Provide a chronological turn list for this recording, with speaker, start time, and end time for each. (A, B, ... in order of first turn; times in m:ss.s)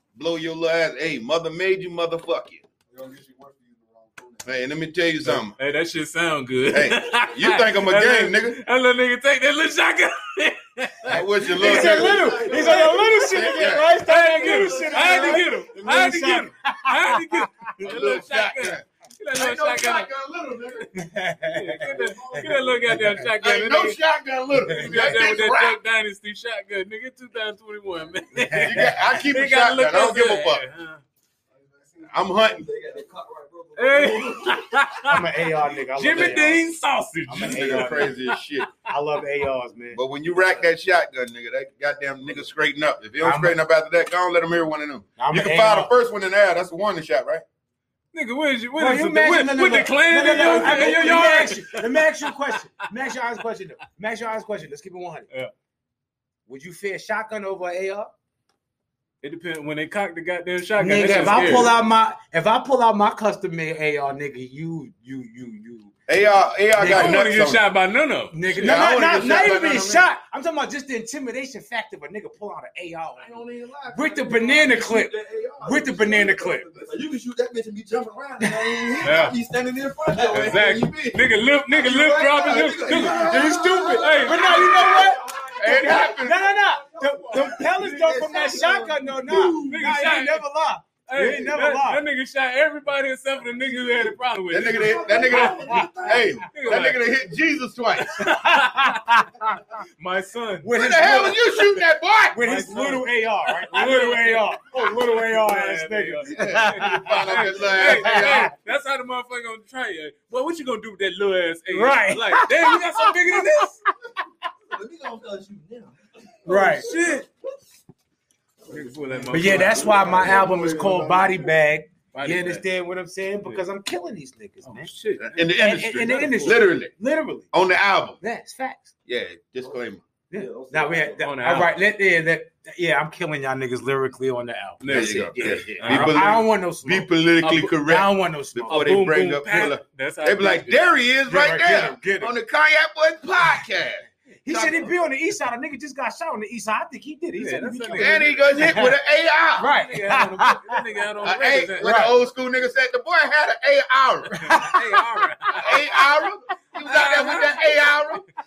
0:00.1-0:02.6 A
0:02.9-0:04.5 B
0:04.4-0:05.6 A
0:05.2-0:20.1 C
0:06.7-0:08.6 A
0:11.0-0:14.0 A
0:11.6-0:15.6 B
0:11.6-0:17.7 D
0:17.8-0:20.9 A
0:20.9-0:23.2 D
0:21.4-0:24.0 C
0:21.8-0:23.1 B
0:23.4-0:25.8 A
0:24.6-0:25.1 D
0:24.8-0:31.0 C
0:28.4-0:28.9 D
0:28.6-0:30.6 A
0:31.7-0:34.8 B
0:32.1-0:32.7 A
0:33.8-0:38.6 C
0:35.0-0:36.6 D
0:37.3-0:38.1 D
0:37.4-0:38.7 A
0:38.8-0:40.0 D
0:39.9-0:47.4 A
0:43.2-0:43.6 D
0:45.2-0:45.9 D
0:48.1-0:52.3 C
0:48.8-0:55.3 D
0:56.4-0:58.1 D
0:59.2-1:01.7 C
1:00.8-1:05.9 D
1:06.1-1:07.6 A
1:06.7-1:07.2 D
1:06.8-1:08.9 C
1:08.3-1:16.6 D
1:08.6-1:10.1 A
1:13.2-1:29.8 B
1:18.4-1:19.0 D
1:19.0-1:19.4 C
1:20.3-1:25.1 C
1:22.9-1:32.0 D
1:25.6-1:26.5 A
1:29.5-1:30.4 C
1:31.1-1:35.9 C
1:34.5-1:38.2 A
1:34.6-1:36.4 B
1:35.5-1:36.2 D
1:36.5-1:37.0 C
1:38.0-1:39.0 C
1:38.2-1:39.7 D
1:39.8-1:40.8 C
1:40.6-1:48.5 D
1:40.7-1:42.5 A
1:42.4-1:53.8 C
1:46.3-1:48.5 A
1:51.7-1:53.7 D
1:54.7-1:57.5 B
1:56.4-1:56.9 D
1:56.4-1:57.2 C
1:58.6-2:01.5 B
1:58.7-2:00.2 C
1:59.3-2:04.9 D
2:00.2-2:00.5 A
2:02.1-2:02.6 C
2:04.6-2:05.5 C
2:05.2-2:06.9 A
2:05.5-2:07.5 D
2:07.5-2:08.2 A
2:08.2-2:08.9 D
2:09.0-2:10.0 A
2:09.6-2:11.2 B
2:10.3-2:17.1 D
2:11.2-2:11.7 C
2:14.8-2:16.4 C
2:14.9-2:24.9 A
2:17.4-2:17.7 C
2:17.7-2:19.0 D
2:18.6-2:20.8 C
2:21.3-2:22.3 D
2:24.4-2:28.9 D
2:27.3-2:28.9 C
2:27.9-2:29.7 A
2:29.6-2:30.8 D
2:29.6-2:32.1 C
2:31.2-2:34.4 A
2:31.8-2:32.1 D
2:34.3-2:35.3 D
2:34.4-2:35.8 C
2:35.6-2:38.2 A
2:36.8-2:37.7 C